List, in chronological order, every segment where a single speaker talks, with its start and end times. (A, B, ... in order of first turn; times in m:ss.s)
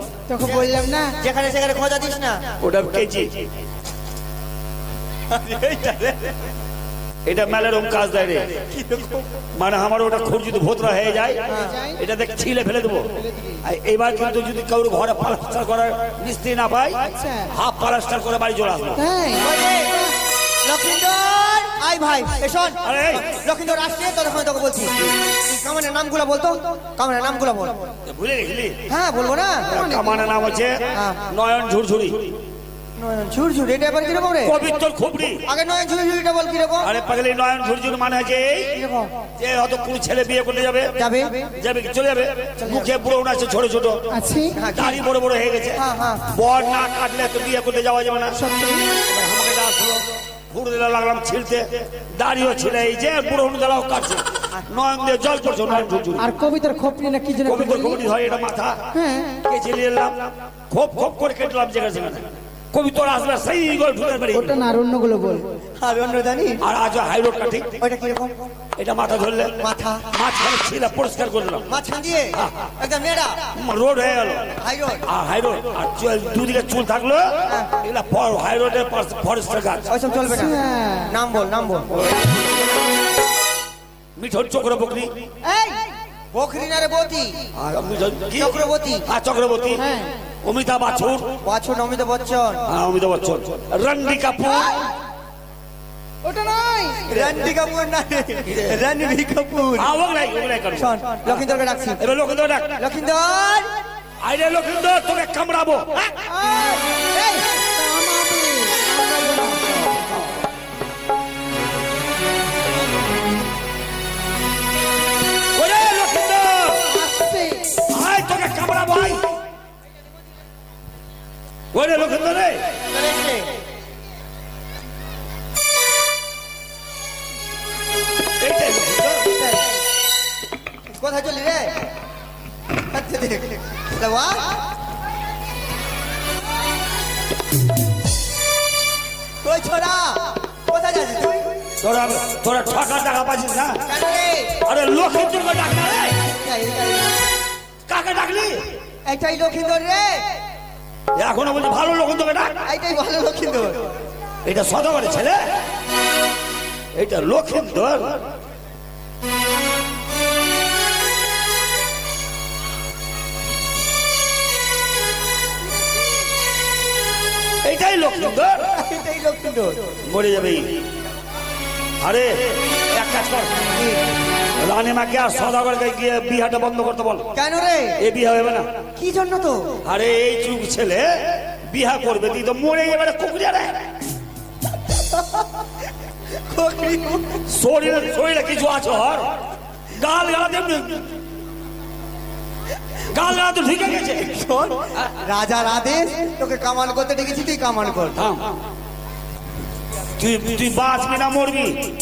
0:00.3-0:01.1 A
0:01.2-0:02.4 B
0:02.6-0:03.5 C
0:05.3-0:06.3 B
0:07.2-0:08.6 C
0:08.7-0:09.2 B
0:09.6-0:19.0 C
0:11.5-0:11.8 B
0:11.5-0:12.0 A
0:13.2-0:13.6 A
0:17.1-0:17.5 A
0:19.0-0:19.5 A
0:19.4-0:20.1 B
0:20.6-0:27.9 B
0:22.8-0:23.2 C
0:28.0-0:28.8 C
0:28.9-0:29.7 B
0:29.7-0:32.4 C
0:29.7-0:30.3 A
0:30.9-0:31.2 B
0:33.0-0:34.5 B
0:34.4-0:35.4 C
0:35.4-0:36.9 B
0:36.8-0:38.7 C
0:38.7-0:39.1 B
0:39.4-0:40.9 C
0:41.0-0:41.5 B
0:41.6-0:44.0 C
0:42.6-0:42.9 B
0:44.1-0:44.5 A
0:44.5-0:45.0 B
0:44.7-0:45.8 C
0:45.7-0:46.3 B
0:46.3-0:48.4 C
0:48.3-0:48.9 A
0:49.1-0:56.3 C
0:56.2-0:58.0 A
0:57.4-0:58.8 C
0:58.9-0:59.4 A
0:59.4-1:04.6 C
1:04.3-1:05.4 A
1:05.8-1:06.6 B
1:06.6-1:07.7 C
1:07.8-1:08.4 B
1:08.8-1:09.6 C
1:09.6-1:10.0 B
1:10.1-1:11.7 C
1:11.7-1:13.4 B
1:12.4-1:12.7 C
1:13.6-1:14.5 C
1:14.6-1:15.0 B
1:15.1-1:19.9 C
1:19.9-1:20.6 B
1:20.3-1:21.1 A
1:21.1-1:22.2 B
1:21.9-1:22.4 C
1:24.2-1:25.1 C
1:25.4-1:25.8 A
1:26.3-1:27.3 B
1:27.5-1:29.8 C
1:28.4-1:29.0 B
1:29.8-1:30.1 A
1:30.4-1:31.4 C
1:31.4-1:32.6 B
1:32.7-1:34.8 C
1:36.2-1:37.0 A
1:37.1-1:39.9 B
1:38.5-1:38.7 C
1:39.8-1:41.4 C
1:40.8-1:42.0 B
1:42.0-1:42.8 C
1:42.8-1:43.7 B
1:44.2-1:45.9 C
1:46.2-1:49.6 A
1:49.6-1:50.4 C
1:55.5-1:56.9 C
1:56.9-1:57.7 A
1:57.9-1:59.3 C
2:01.7-2:02.6 C
2:02.9-2:03.5 B
2:08.4-2:09.3 C
2:09.3-2:09.6 B
2:10.9-2:11.8 B
2:12.9-2:14.5 B
2:19.4-2:21.6 B
2:21.8-2:23.8 C
2:23.8-2:24.6 B
2:24.6-2:26.2 C
2:26.2-2:27.2 B
2:27.9-2:28.6 C
2:29.1-2:30.2 B
2:31.2-2:32.6 C
2:32.6-2:33.9 B
2:34.4-2:35.4 C
2:36.9-2:38.2 C
2:47.6-2:48.6 C
2:48.7-2:49.9 B
2:50.0-2:50.8 C
2:52.0-2:53.6 C
2:53.7-2:54.0 B
2:54.6-2:57.3 C
2:57.3-2:58.0 B
2:58.0-2:58.7 C
2:59.0-2:59.7 B
2:59.8-3:03.9 C
3:04.9-3:05.4 B
3:06.4-3:07.4 B
3:07.5-3:09.3 C
3:09.9-3:11.1 C
3:13.1-3:14.2 C
3:14.1-3:18.2 B
3:18.2-3:18.5 C
3:20.2-3:21.9 C